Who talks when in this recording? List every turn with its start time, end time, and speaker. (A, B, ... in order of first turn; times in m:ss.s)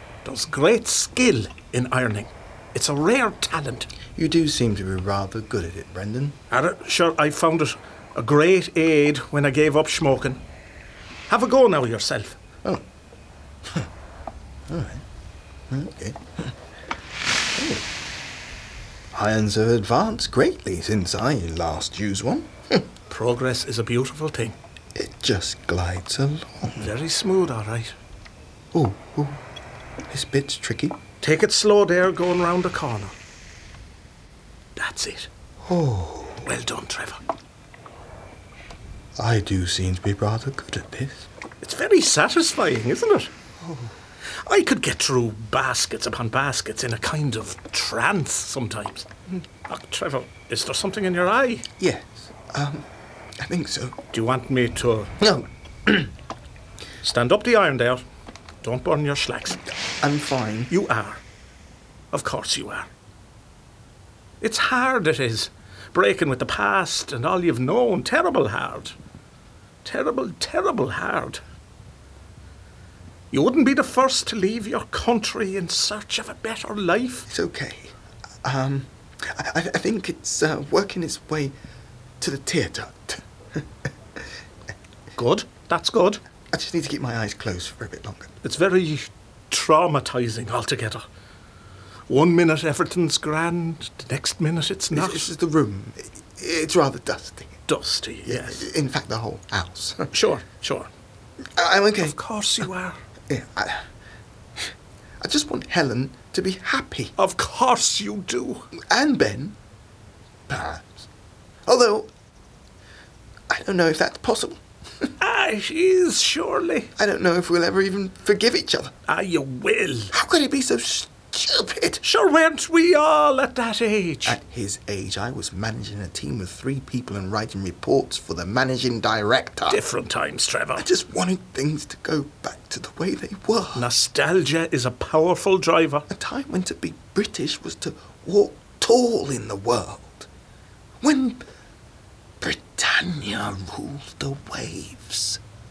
0:00.2-0:03.9 A
0:04.1-0:06.4 B
0:06.5-0:10.4 A
0:11.3-0:12.4 A
0:14.7-0:15.0 B
0:15.7-0:16.2 B
0:17.5-0:17.8 B
0:19.1-0:22.9 B
0:23.1-0:24.6 A
0:24.9-0:26.9 B
0:26.8-0:28.0 A
0:28.7-0:29.4 B
0:30.1-0:31.0 B
0:31.2-0:33.1 A
0:34.7-0:35.3 A
0:35.6-0:36.5 B
0:36.4-0:37.2 A
0:39.2-0:41.3 B
0:41.6-0:43.3 A
0:43.6-0:43.9 B
0:44.4-0:49.1 A
0:49.7-0:51.7 A
0:51.8-0:52.9 B
0:53.4-0:54.0 B
0:54.1-0:55.1 A
0:55.2-0:56.1 B
0:57.0-0:58.0 A
0:58.6-0:59.6 A
1:00.0-1:00.7 B
1:00.7-1:01.2 A
1:02.1-1:02.9 A
1:04.4-1:09.0 A
1:09.8-1:11.4 A
1:13.3-1:17.3 A
1:17.3-1:21.5 B
1:22.2-1:23.6 B
1:25.1-1:26.2 A
1:26.5-1:28.4 B
1:28.4-1:31.0 A
1:32.1-1:35.3 A
1:34.9-1:37.6 B
1:37.7-1:38.6 A
1:38.2-1:40.1 B
1:40.1-1:40.9 A
1:41.6-1:42.2 B
1:42.0-1:43.0 A
1:43.3-1:43.8 B
1:45.2-1:47.1 B
1:47.2-1:48.7 A
1:48.8-1:49.6 B
1:50.5-1:51.1 B
1:51.6-1:52.1 B
1:53.5-1:54.6 B
1:55.2-1:56.9 A
1:57.0-1:58.9 B
1:59.0-2:00.1 A
2:00.1-2:02.0 B
2:02.0-2:04.4 A
2:04.2-2:09.8 B
2:09.7-2:10.8 A
2:10.8-2:13.9 B
2:13.8-2:16.1 A
2:16.1-2:20.3 B
2:21.0-2:21.4 B
2:22.4-2:25.4 B